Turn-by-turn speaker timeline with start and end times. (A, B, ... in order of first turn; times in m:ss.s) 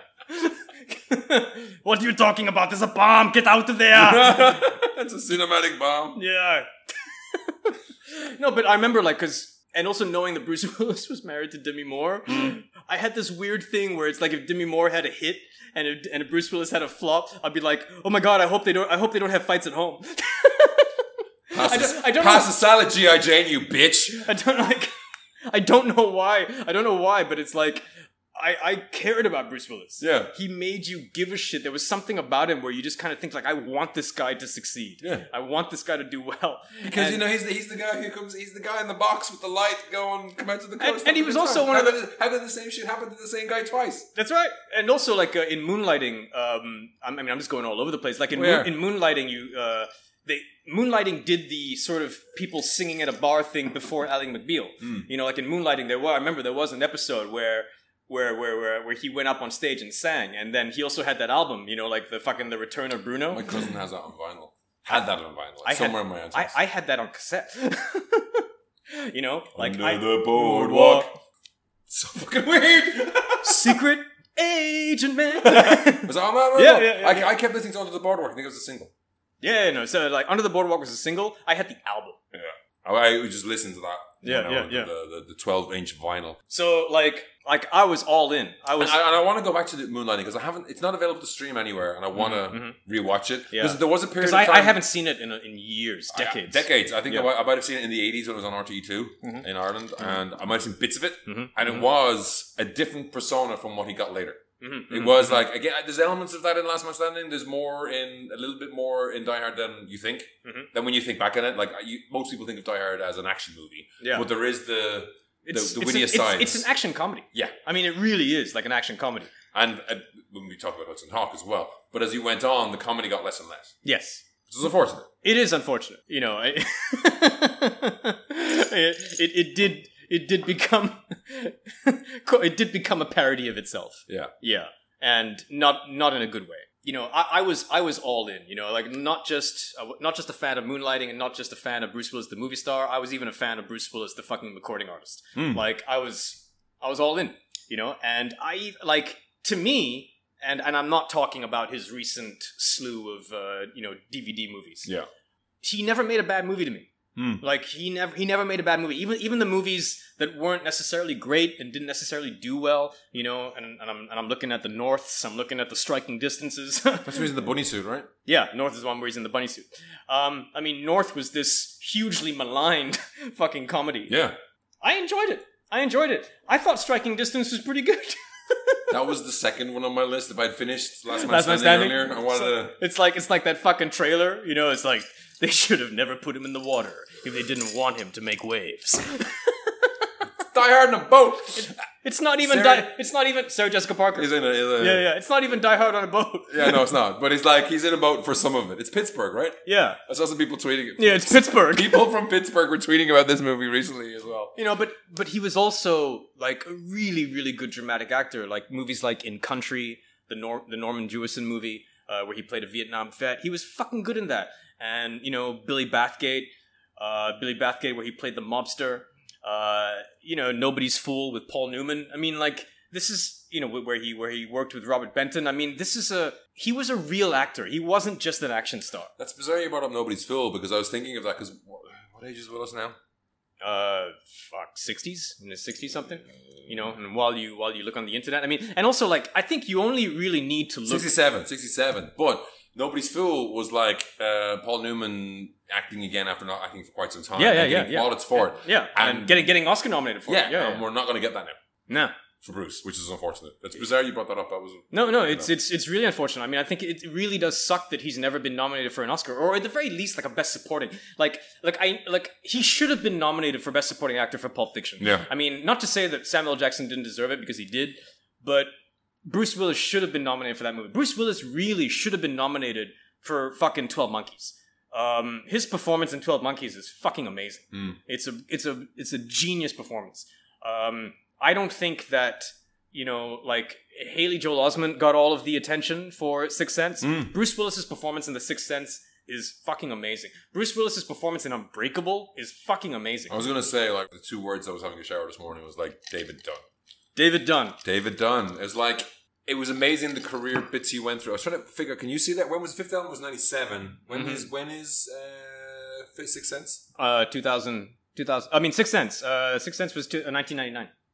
0:00.3-0:04.9 A
0:03.9-0:06.2 B
0:06.1-0:22.5 A
0:12.3-0:12.6 B
0:21.5-0:24.3 B
0:24.1-0:24.9 A
0:25.5-0:37.2 A
0:30.0-0:30.3 B
0:36.8-0:44.1 B
0:40.8-0:42.0 A
0:44.1-1:03.4 A
0:48.3-0:48.7 B
0:54.8-0:55.1 B
1:03.3-1:06.5 B
1:05.6-1:11.1 A
1:09.5-1:11.1 B
1:11.9-1:13.8 B
1:13.4-1:17.3 A
1:15.4-1:18.9 B
1:19.4-1:22.2 A
1:22.3-1:26.4 B
1:24.2-1:24.9 A
1:26.5-1:29.0 A
1:28.8-1:34.8 B
1:32.2-1:32.8 A
1:33.5-1:37.3 A
1:36.1-1:56.6 B
1:41.2-1:41.9 A
1:44.6-1:45.4 A
1:54.0-1:54.2 A
1:55.4-1:59.3 A
1:59.5-2:03.8 B
2:03.8-2:04.2 A
2:04.5-2:05.1 B
2:05.2-2:34.9 A
2:25.3-2:25.6 B
2:35.6-2:36.9 A
2:37.2-2:37.4 B
2:37.4-2:47.3 A
2:47.0-2:48.1 B
2:48.2-2:54.2 A
2:54.1-2:54.3 B
2:54.8-2:58.9 A
2:58.9-3:02.7 B
3:01.1-3:10.1 A
3:10.4-3:11.7 B
3:11.6-3:16.9 A
3:12.4-3:12.9 B
3:14.2-3:15.0 B
3:16.5-3:24.5 B
3:19.6-3:20.0 A
3:21.0-3:22.0 A
3:24.6-3:49.1 A
3:49.2-3:53.0 B
3:53.6-4:01.1 A
4:00.9-4:09.5 B
4:07.4-4:10.8 A
4:10.3-4:11.6 B
4:11.9-4:12.1 A
4:12.4-4:15.5 B
4:14.9-4:28.7 A
4:25.0-4:25.3 B
4:29.2-4:53.4 A
4:47.0-4:47.3 B
4:53.3-4:56.6 B
4:57.2-4:57.8 A
4:57.8-5:06.8 B
5:04.1-5:04.4 A
5:07.0-5:10.9 A